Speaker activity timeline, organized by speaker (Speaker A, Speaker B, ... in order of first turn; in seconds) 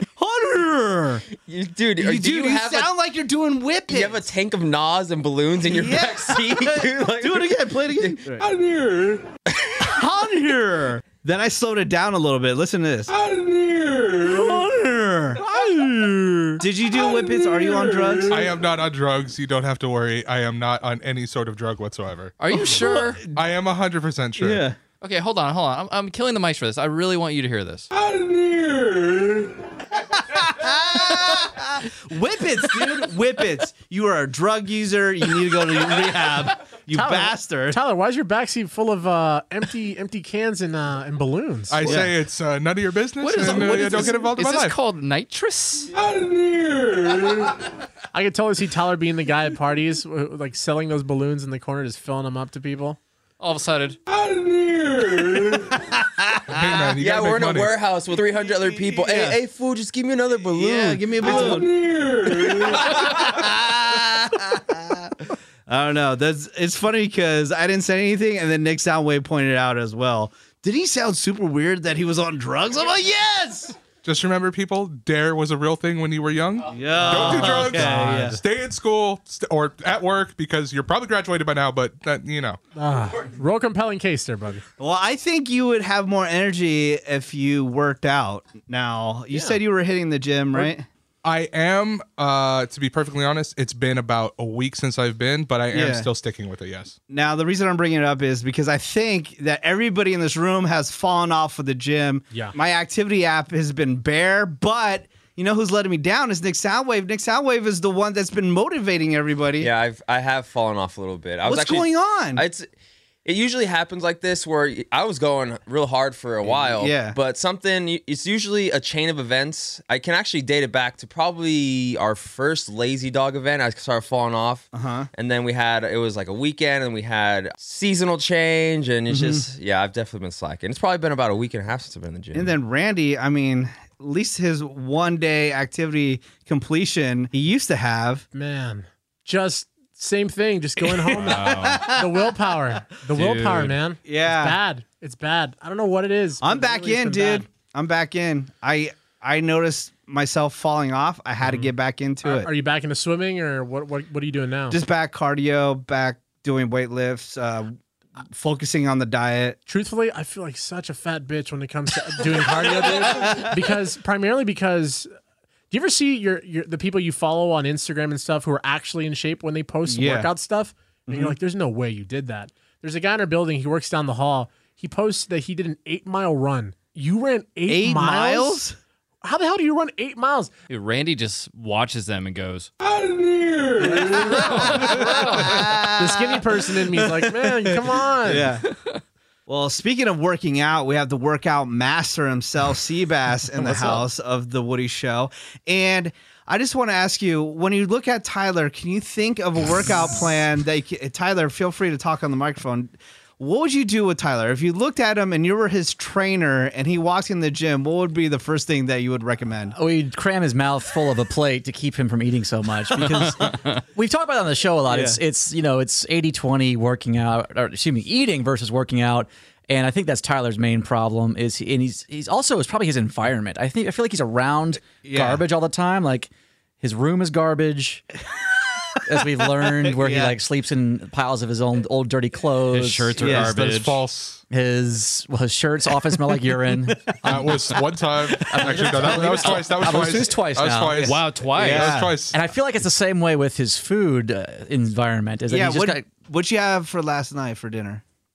Speaker A: 0.1-1.3, 2.0-4.2, 5.6-8.5, 9.8-13.1, 14.2-18.5, 22.5-23.4, 24.4-24.8, 30.0-37.8, 41.8-42.1, 55.5-56.9, 58.9-59.4, 60.5-65.1, 65.7-73.8, 76.7-78.4, 84.8-90.9, 95.7-96.1, 97.1-109.7, 111.4-112.4, 116.4-117.2, 124.7-125.1, 129.1-129.4, 132.3-138.2, 140.9-142.3, 144.1-144.6, 146.4-152.5, 154.7-157.8, 158.3-159.6, 162.7-163.5, 169.9-170.3, 171.1-171.3, 177.7-178.8, 183.8-188.7, 189.5-209.7, 213.1-213.5, 214.9-215.2, 225.0-225.4, 229.8-230.3, 233.2-233.5, 240.9-242.2, 245.5-248.0
Speaker B: 1.4-2.9, 3.9-8.2, 57.0-61.6, 109.6-112.7, 113.2-132.5
Speaker C: 18.3-22.4, 23.2-24.6, 41.7-44.8, 56.5-57.7, 74.0-82.6, 91.2-97.0, 233.3-234.4, 237.2-242.4
Speaker D: 22.4-23.2, 25.0-27.9, 43.2-45.9, 53.4-54.0, 141.2-141.9, 143.1-143.8, 180.7-182.7, 184.2-185.7, 213.1-213.8, 232.7-234.0, 241.0-242.0
Speaker E: 36.9-42.0, 48.1-53.0, 77.0-78.4, 82.8-84.6, 89.3-89.6, 138.3-147.4, 152.2-154.8, 159.7-165.1, 165.7-178.6, 179.2-180.5, 184.6-188.5
Speaker F: 209.7-226.3, 226.8-228.1, 229.0-233.4, 234.5-241.1, 242.3-246.1